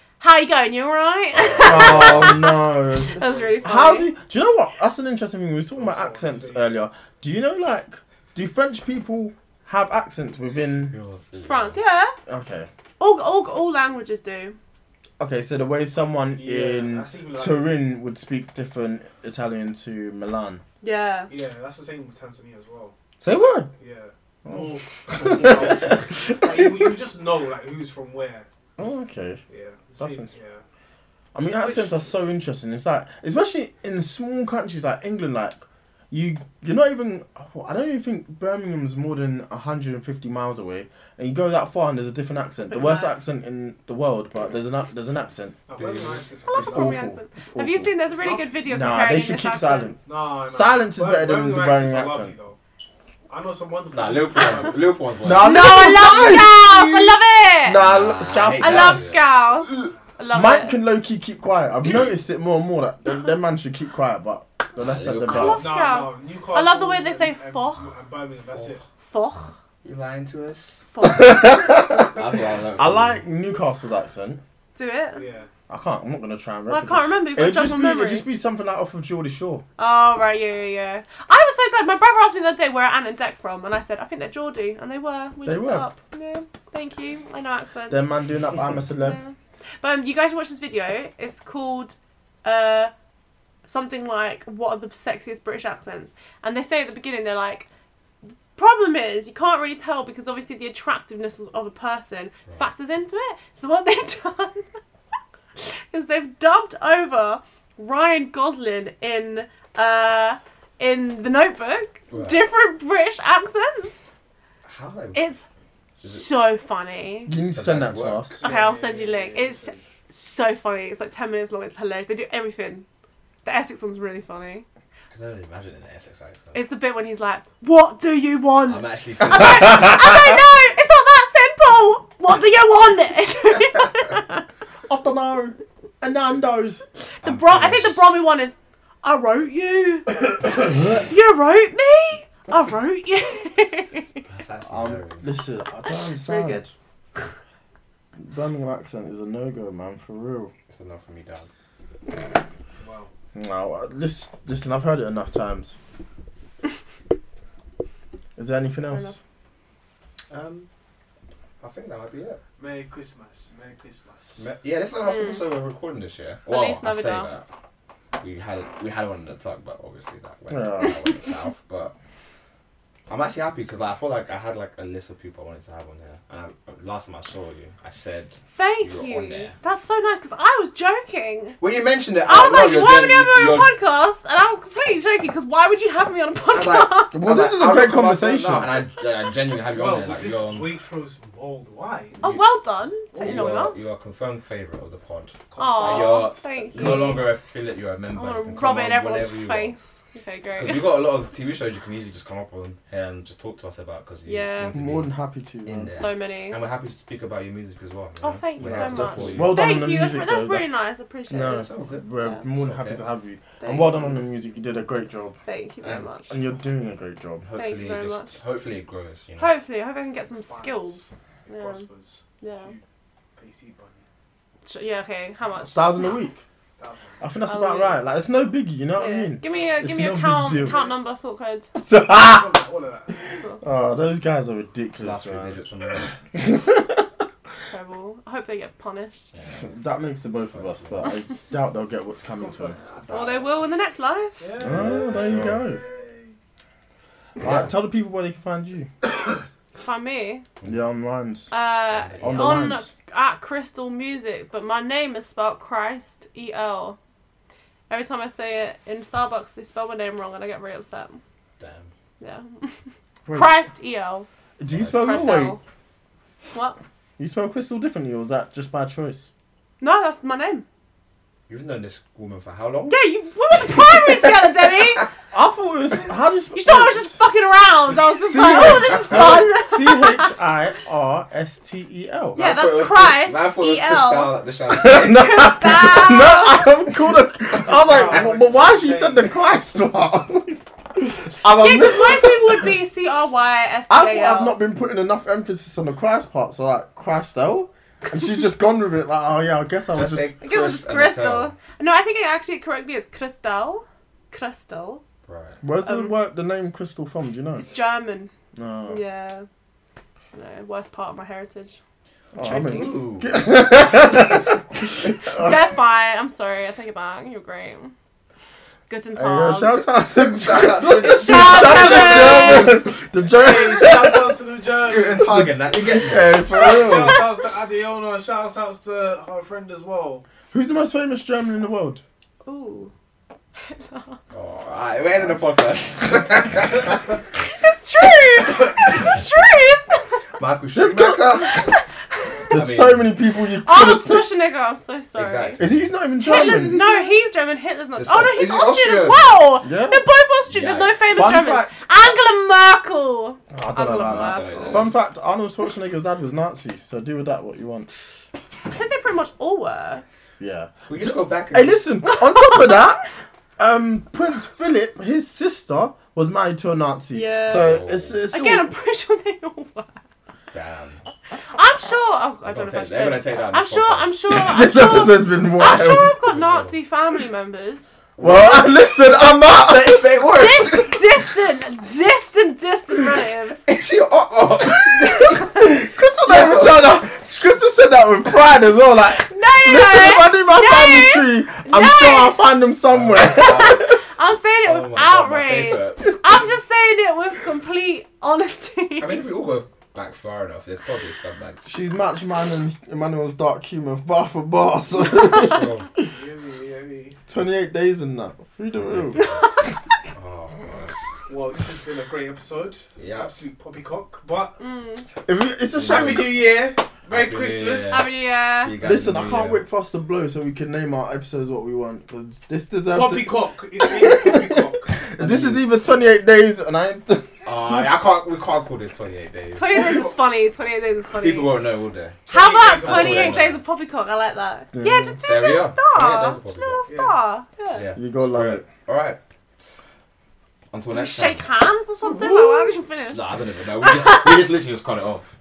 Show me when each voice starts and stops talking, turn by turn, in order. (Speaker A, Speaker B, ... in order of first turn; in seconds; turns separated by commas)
Speaker A: 0.2-4.1, Speaker B: 1.3-2.5, Speaker C: 1.6-10.9, Speaker D: 5.8-6.8, Speaker B: 10.9-11.8, Speaker A: 11.4-12.2, Speaker C: 12.3-12.7, Speaker A: 13.0-14.6, Speaker C: 15.2-20.6, Speaker D: 16.3-17.8, Speaker A: 20.8-21.3, Speaker D: 21.3-22.9, Speaker C: 23.2-23.7, Speaker D: 23.8-28.5, Speaker C: 24.4-27.0, Speaker C: 28.8-29.4, Speaker D: 29.5-30.6, Speaker C: 30.0-30.3, Speaker C: 31.3-45.6, Speaker D: 31.6-32.1, Speaker A: 42.7-43.2, Speaker D: 45.7-47.1, Speaker B: 45.7-46.2, Speaker A: 46.5-50.0, Speaker C: 46.5-47.9, Speaker D: 48.1-48.6, Speaker C: 48.6-52.3, Speaker D: 50.0-52.6, Speaker D: 53.3-54.9, Speaker B: 53.9-55.6, Speaker C: 55.2-65.7, Speaker A: 55.4-57.8, Speaker B: 57.7-59.2, Speaker A: 58.5-60.8, Speaker B: 64.8-65.6, Speaker A: 65.3-67.8, Speaker D: 65.4-68.8, Speaker A: 69.0-69.5, Speaker B: 69.8-70.8, Speaker A: 70.9-71.4, Speaker C: 71.0-72.2, Speaker B: 72.0-73.2, Speaker C: 72.8-74.4, Speaker A: 74.7-75.2, Speaker D: 75.1-75.5, Speaker C: 75.7-79.6, Speaker A: 76.7-78.3, Speaker A: 79.8-88.0, Speaker C: 85.4-85.9, Speaker C: 87.9-89.2, Speaker A: 89.0-92.9, Speaker A: 93.7-97.7, Speaker A: 98.5-104.6, Speaker A: 105.6-114.0, Speaker B: 112.1-112.4, Speaker B: 114.6-115.3, Speaker A: 115.1-115.4, Speaker A: 116.0-117.3, Speaker B: 116.0-116.2, Speaker C: 117.2-118.4, Speaker B: 117.5-118.3, Speaker D: 118.3-119.8, Speaker A: 118.4-122.8, Speaker A: 123.4-124.7, Speaker B: 125.1-126.5, Speaker A: 126.5-134.4, Speaker B: 128.7-130.3, Speaker C: 134.9-136.8, Speaker A: 137.2-144.2, Speaker B: 137.2-138.1, Speaker C: 140.6-140.9, Speaker B: 144.3-145.3, Speaker C: 144.7-146.7, Speaker A: 145.9-146.6, Speaker C: 148.2-150.5, Speaker B: 150.7-151.5, Speaker D: 152.8-153.1, Speaker C: 153.3-155.8, Speaker C: 158.3-159.2, Speaker B: 160.3-160.7, Speaker B: 161.6-162.4, Speaker D: 162.6-164.5, Speaker B: 164.4-167.4, Speaker A: 165.0-165.4, Speaker A: 166.4-167.3, Speaker B: 168.2-171.9, Speaker C: 170.5-171.0, Speaker B: 173.1-179.5, Speaker A: 178.5-181.6, Speaker B: 181.6-183.7, Speaker A: 182.2-187.2, Speaker B: 186.5-190.8, Speaker C: 187.1-188.8, Speaker D: 189.6-192.2, Speaker A: 192.2-193.8, Speaker D: 193.1-193.7, Speaker B: 193.2-199.7, Speaker D: 195.5-196.4, Speaker A: 195.6-197.2, Speaker C: 196.7-197.2, Speaker A: 198.1-200.9, Speaker B: 200.6-205.1, Speaker A: 204.2-204.7, Speaker C: 204.7-206.0, Speaker B: 205.6-209.6, Speaker A: 205.9-206.6, Speaker A: 208.2-212.4, Speaker C: 208.6-215.4, Speaker B: 211.3-213.0, Speaker A: 213.6-214.2, Speaker A: 215.4-216.3, Speaker C: 216.3-217.4, Speaker B: 217.4-219.5, Speaker A: 217.5-218.3, Speaker A: 219.4-221.8, Speaker D: 220.2-222.8, Speaker A: 222.4-222.7, Speaker D: 223.3-224.0, Speaker A: 224.7-226.1, Speaker C: 225.7-226.4, Speaker D: 226.8-227.2, Speaker C: 227.2-230.9, Speaker A: 227.4-228.0, Speaker A: 228.9-231.7, Speaker C: 231.7-232.6, Speaker D: 232.1-233.2, Speaker C: 233.6-235.6, Speaker B: 235.0-236.1, Speaker C: 236.3-237.1, Speaker A: 237.7-239.3, Speaker B: 239.3-239.7, Speaker C: 239.5-242.8, Speaker B: 240.3-241.2, Speaker D: 242.3-243.0, Speaker B: 242.9-243.5, Speaker A: 243.1-244.4, Speaker D: 244.4-246.3, Speaker C: 244.6-245.8, Speaker B: 244.6-245.6, Speaker C: 247.4-248.9, Speaker B: 247.4-247.7, Speaker A: 249.8-250.4, Speaker C: 250.6-251.5, Speaker A: 251.5-257.0, Speaker B: 251.9-252.7, Speaker C: 252.2-252.9, Speaker A: 257.9-261.2, Speaker B: 261.6-261.9, Speaker A: 262.2-262.8, Speaker C: 263.2-263.6, Speaker A: 263.3-264.3, Speaker C: 264.6-265.6, Speaker B: 264.7-265.4, Speaker A: 265.0-265.6, Speaker C: 267.2-269.3, Speaker A: 269.8-270.6, Speaker B: 271.5-273.0, Speaker A: 272.9-275.1, Speaker C: 275.3-277.2, Speaker A: 276.5-280.3, Speaker C: 278.1-282.4, Speaker A: 282.3-284.4, Speaker B: 282.3-285.5, Speaker C: 284.7-292.7, Speaker A: 284.9-286.7, Speaker B: 287.5-288.4, Speaker D: 287.6-289.3, Speaker A: 291.4-294.6, Speaker C: 293.9-300.3, Speaker B: 299.9-301.5, Speaker A: 300.4-305.0, Speaker B: 305.2-305.6, Speaker C: 305.6-307.7, Speaker A: 305.8-306.1, Speaker A: 307.7-308.3, Speaker C: 308.6-309.0, Speaker A: 308.9-309.4, Speaker A: 310.3-311.8, Speaker C: 312.3-315.7, Speaker A: 312.4-312.9, Speaker B: 312.4-313.4, Speaker A: 315.3-317.9, Speaker A: 318.9-319.9, Speaker C: 319.1-324.4, Speaker B: 320.1-323.0, Speaker A: 321.0-322.8, Speaker D: 323.3-325.5, Speaker B: 324.8-326.9, Speaker C: 325.1-327.3, Speaker D: 326.5-330.2, Speaker C: 330.5-332.0, Speaker A: 332.4-332.9, Speaker A: 333.6-334.2, Speaker B: 334.3-337.1, Speaker A: 337.4-340.1, Speaker B: 340.4-341.7, Speaker C: 340.7-341.6, Speaker A: 341.4-342.3, Speaker C: 342.5-344.3, Speaker B: 342.5-343.1, Speaker A: 343.6-345.6, Speaker B: 345.1-347.1, Speaker C: 345.6-346.9, Speaker A: 346.2-354.9, Speaker B: 347.9-349.4, Speaker C: 349.6-350.1, Speaker B: 350.5-351.2, Speaker C: 351.1-351.9, Speaker C: 353.5-357.9, Speaker B: 354.1-355.0, Speaker A: 358.7-360.0, Speaker C: 360.4-363.0, Speaker B: 360.9-361.8, Speaker A: 362.0-362.8, Speaker C: 363.6-368.7, Speaker A: 367.1-367.8, Speaker B: 367.4-368.2, Speaker A: 368.3-370.0, Speaker B: 370.5-371.0, Speaker A: 371.5-377.9, Speaker B: 372.4-374.2, Speaker C: 374.3-376.1, Speaker B: 376.2-376.8, Speaker B: 378.2-381.1, Speaker C: 378.2-380.2, Speaker A: 380.3-383.6, Speaker B: 383.7-387.0, Speaker C: 384.8-394.0, Speaker A: 389.3-392.4, Speaker B: 392.9-393.9, Speaker A: 394.0-399.2, Speaker B: 394.6-396.4, Speaker B: 399.0-401.6, Speaker C: 401.6-406.0, Speaker B: 405.2-405.9, Speaker D: 406.1-407.2, Speaker C: 407.3-409.2, Speaker B: 408.8-409.5, Speaker B: 410.1-410.9, Speaker D: 411.3-414.6, Speaker B: 413.0-413.3, Speaker A: 414.6-415.0, Speaker C: 415.2-416.4, Speaker B: 415.8-416.4, Speaker D: 415.9-418.1, Speaker B: 417.1-419.6, Speaker A: 417.9-418.7, Speaker C: 418.8-428.0, Speaker D: 422.9-424.9, Speaker B: 425.2-425.6, Speaker B: 427.4-430.1, Speaker A: 429.5-431.6, Speaker B: 431.2-432.2, Speaker A: 432.3-437.9, Speaker D: 432.3-433.4, Speaker B: 432.7-433.6, Speaker C: 434.7-435.2, Speaker B: 435.2-436.9, Speaker D: 436.9-437.2, Speaker B: 437.7-439.2, Speaker C: 437.9-438.7, Speaker B: 440.7-441.5, Speaker A: 440.9-443.2, Speaker B: 442.0-445.3, Speaker A: 443.8-444.4